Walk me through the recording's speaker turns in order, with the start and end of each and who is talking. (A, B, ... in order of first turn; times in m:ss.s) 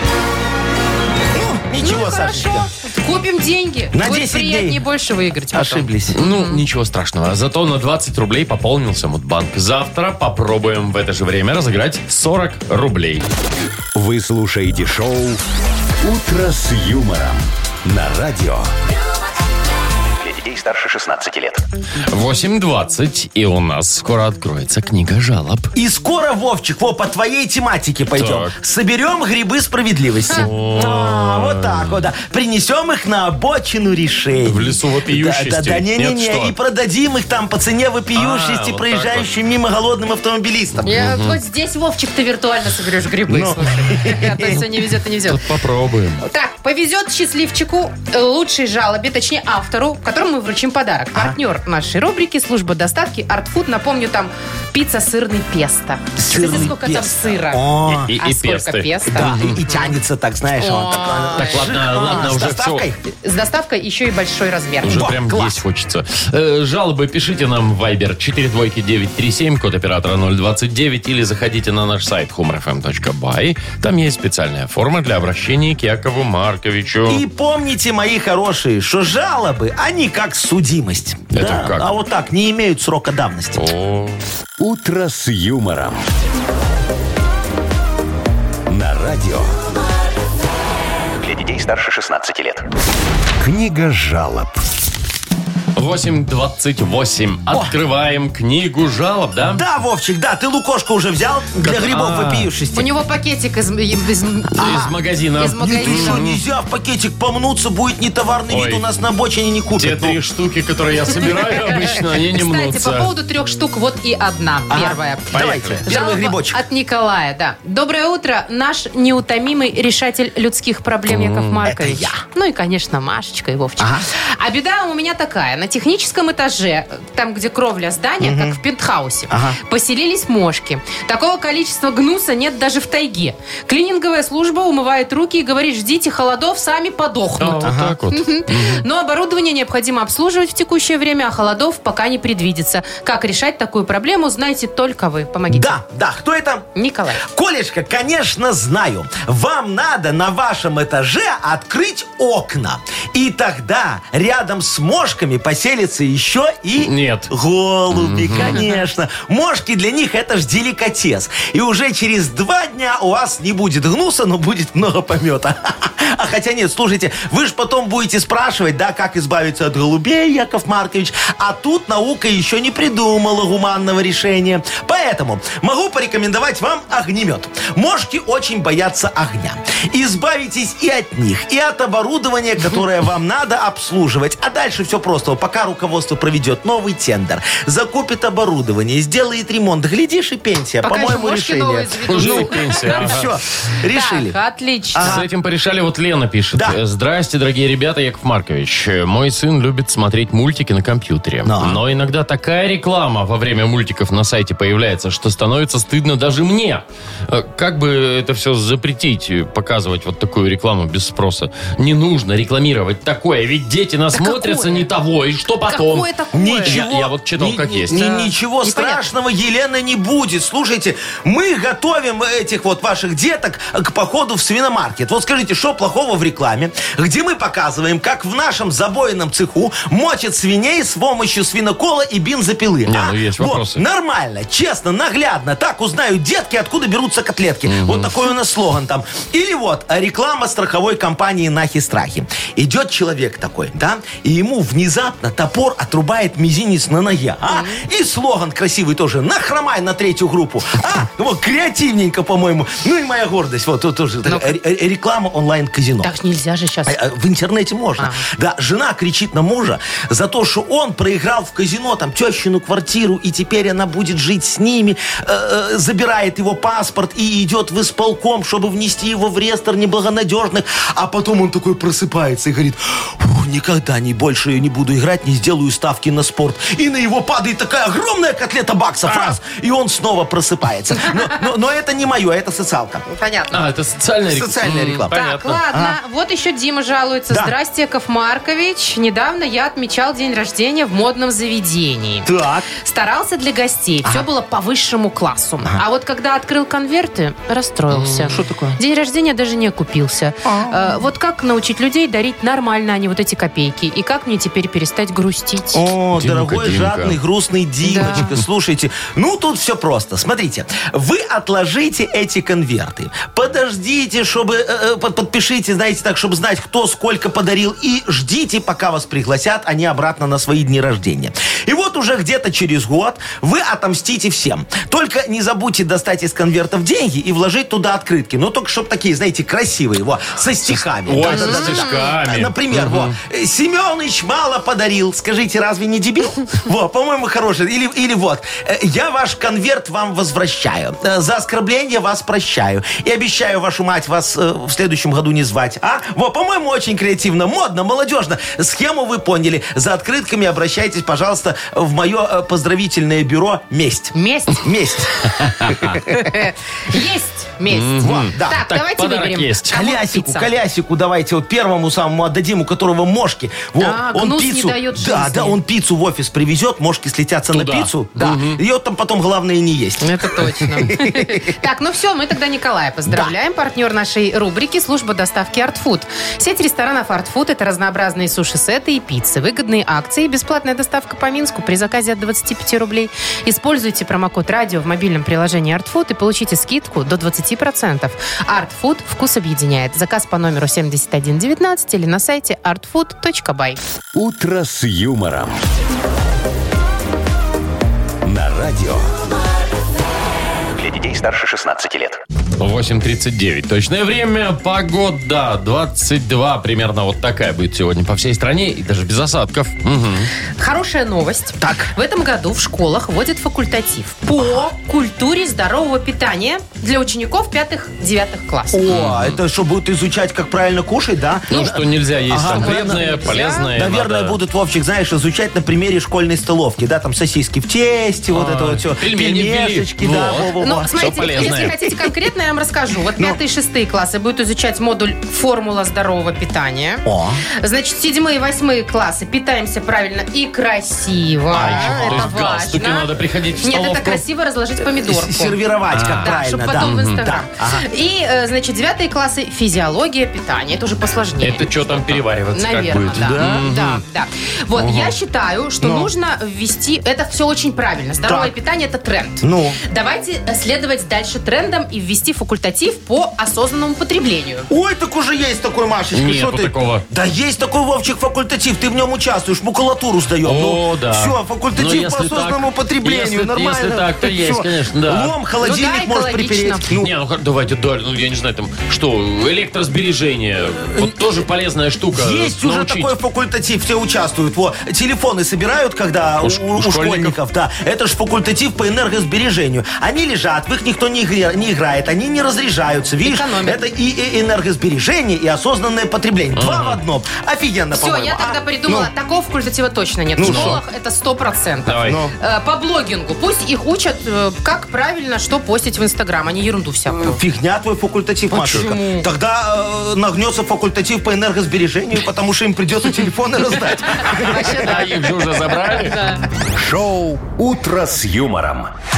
0:01.3-0:02.7 A
0:01.8-0:06.6 B
0:03.9-0:04.8 A
0:05.5-0:06.2 A
0:06.1-0:13.2 C
0:13.9-0:15.4 D
0:16.0-0:18.7 D
0:20.2-0:21.6 E
0:22.1-0:25.7 C
0:25.7-0:40.9 A
0:28.1-0:28.5 C
0:30.3-0:32.0 C
0:34.4-0:36.5 C
0:38.1-0:39.3 C
0:40.8-0:45.4 B
0:40.8-0:41.4 C
0:43.3-0:44.6 A
0:45.3-0:46.2 C
0:46.2-0:59.9 B
0:56.2-0:58.1 A
0:56.4-0:56.7 C
0:57.9-0:59.6 C
0:59.1-1:03.0 A
1:00.6-1:01.7 B
1:01.4-1:02.8 C
1:03.1-1:05.1 B
1:04.8-1:17.2 C
1:04.9-1:05.6 A
1:17.1-1:23.6 A
1:21.3-1:21.9 C
1:23.5-1:24.2 C
1:24.6-1:26.0 D
1:28.7-1:29.6 D
1:31.2-1:32.6 E
1:33.4-1:34.6 D
1:35.7-1:39.6 C
1:39.5-1:42.9 A
1:41.6-1:42.5 C
1:42.7-1:46.2 B
1:44.6-1:44.9 A
1:44.6-1:46.4 C
1:45.6-1:50.2 A
1:48.5-1:48.8 C
1:49.8-1:53.1 C
1:51.7-2:25.8 B
1:54.7-1:56.6 A
1:55.3-1:55.8 C
2:01.1-2:01.6 C
2:01.6-2:02.2 A
2:03.8-2:04.0 A
2:08.2-2:08.6 A
2:09.3-2:09.6 A
2:17.4-2:18.8 C
2:17.6-2:18.0 A
2:25.5-2:26.7 A
2:26.7-2:27.2 B
2:27.2-3:14.4 A
2:36.8-2:37.3 C
2:37.9-2:38.6 C
2:38.4-2:38.8 B
3:10.8-3:13.2 B
3:12.1-3:13.3 C
3:13.9-3:15.2 B
3:14.9-3:15.2 A
3:15.0-3:36.1 C
3:21.4-3:21.8 A
3:34.1-3:34.9 B
3:35.7-3:36.8 B
3:36.3-4:16.1 A
3:36.6-3:38.1 C
3:37.9-3:39.0 B
3:52.8-3:53.8 C
3:57.6-3:58.1 C
4:07.5-4:07.8 B
4:14.2-4:14.6 B
4:16.0-4:17.0 B
4:16.8-4:43.0 A
4:18.0-4:18.2 B
4:43.1-4:43.6 B
4:43.5-4:45.6 C
4:44.2-4:45.1 A
4:45.1-5:05.8 B
4:45.7-4:46.0 A
4:52.2-4:52.7 A
4:58.2-4:58.8 A
5:00.4-5:01.0 A
5:05.7-5:56.3 A
5:06.1-5:07.2 C
5:07.8-5:08.3 B
5:30.6-5:33.2 C
5:31.2-5:32.1 B
5:54.1-5:54.7 B
5:55.6-5:55.9 C
5:56.1-6:00.5 B
5:57.7-5:59.8 C
5:58.0-5:58.6 A
5:59.7-6:11.5 A
6:03.8-6:05.6 B
6:07.5-6:08.6 C
6:10.0-6:33.8 B
6:34.1-6:35.6 D
6:38.2-6:39.1 D
6:40.8-6:42.2 E
6:42.6-6:50.3 C
6:50.6-6:58.8 B
6:51.6-6:51.9 A
6:58.7-7:11.9 A
6:58.9-6:59.4 C
7:01.5-7:04.4 C
7:02.4-7:03.7 B
7:08.3-7:11.7 C
7:10.6-7:31.7 B
7:17.0-7:17.4 A
7:21.5-7:22.4 A
7:21.5-7:24.2 C
7:24.9-7:27.8 A
7:25.9-7:27.2 C
7:31.4-7:34.0 C
7:32.5-7:44.7 B
7:33.4-7:33.7 A
7:35.8-7:36.1 A
7:38.2-7:38.5 A
7:39.4-7:39.8 A
7:44.7-7:57.1 A
7:46.1-7:47.0 C
7:50.4-7:55.3 C
7:55.6-7:56.8 B
7:57.0-8:03.1 C
8:02.1-8:19.1 A
8:06.4-8:07.4 C
8:13.2-8:13.8 B
8:16.5-8:17.0 C
8:17.9-8:27.4 B
8:20.4-8:20.8 A
8:20.4-8:20.8 C
8:21.8-8:22.2 C
8:22.0-8:22.3 A
8:27.1-8:35.0 A
8:28.5-8:29.3 B
8:34.2-8:35.0 B
8:34.5-8:36.2 C
8:36.1-8:36.4 B
8:36.7-8:38.9 D